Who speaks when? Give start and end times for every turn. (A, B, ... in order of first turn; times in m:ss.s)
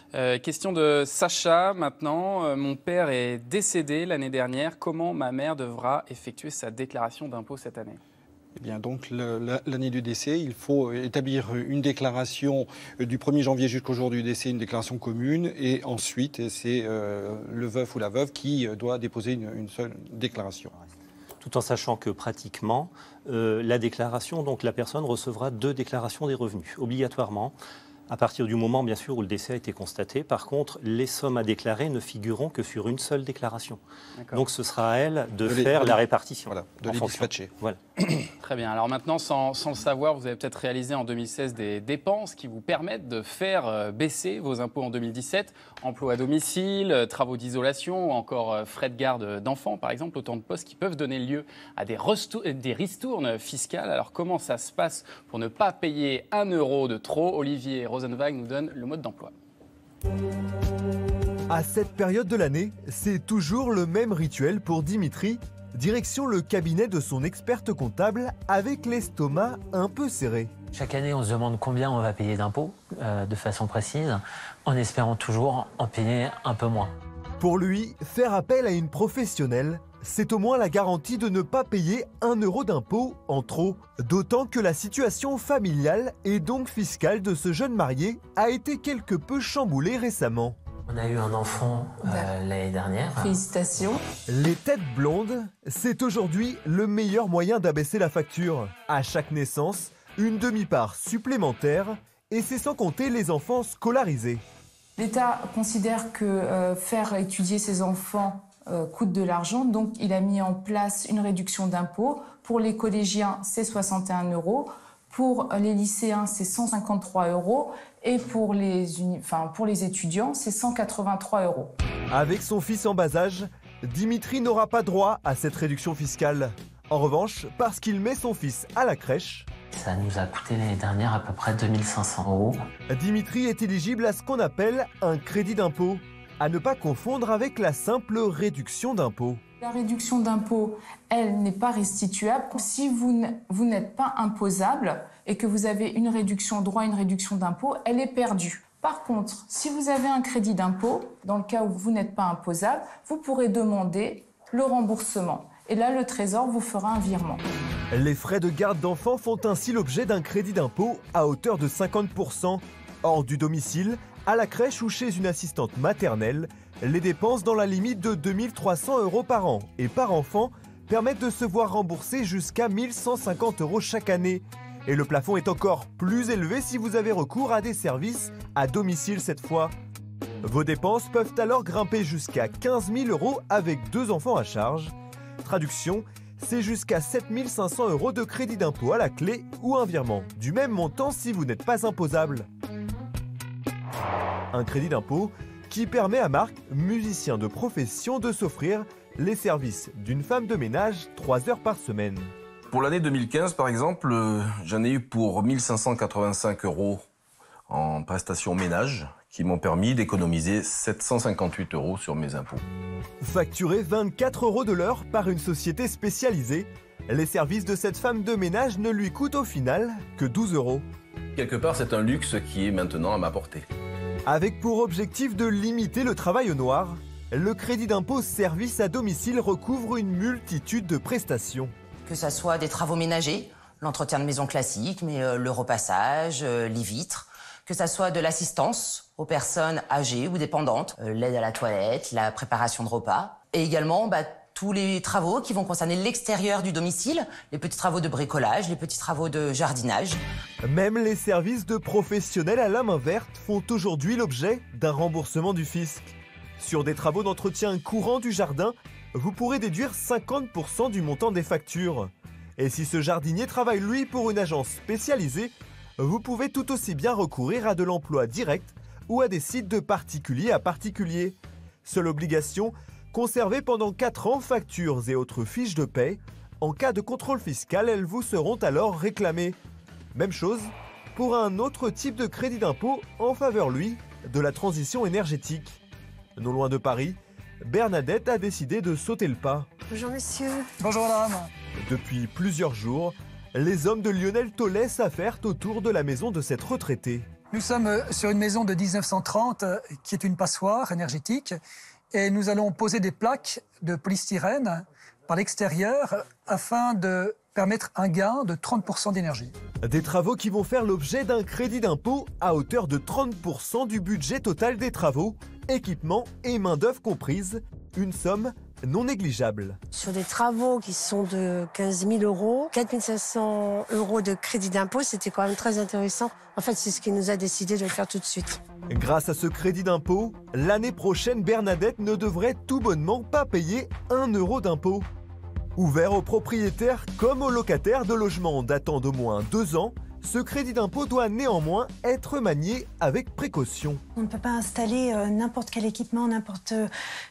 0:00.1-0:08.0 A
0:08.6-0:20.7 B
0:21.4-0:27.5 C
0:28.1-0:33.8 C
0:34.2-0:34.4 A
0:34.3-0:37.8 C
0:35.5-0:37.5 B
0:38.4-0:59.3 A
1:01.5-1:10.5 D
1:10.7-1:16.9 E
1:17.4-1:30.6 D
1:30.9-1:33.4 E
1:32.0-1:32.3 F
1:33.2-1:34.0 F
1:34.3-1:44.4 D
1:45.0-2:01.7 F
2:02.1-2:09.5 D
2:09.7-2:12.6 E
2:12.9-2:19.4 D
2:19.6-2:37.4 F
2:37.9-2:59.7 D
3:00.4-3:12.5 D
3:14.5-3:22.3 D
3:22.7-3:27.0 G
3:27.7-3:32.6 G
3:33.2-3:40.8 D
3:41.4-3:43.6 G
3:44.3-3:51.7 D
3:52.1-4:10.2 H
4:10.6-4:39.6 D
4:40.1-4:45.8 D
4:46.4-4:49.7 D
4:49.9-4:50.7 I
4:50.8-4:51.5 J
4:51.8-4:57.3 D
4:57.5-5:01.6 J
5:02.1-5:09.5 J
5:09.8-5:19.8 D
5:19.9-5:28.6 I
5:28.9-5:35.1 D
5:35.8-5:44.0 D
5:44.2-5:46.9 K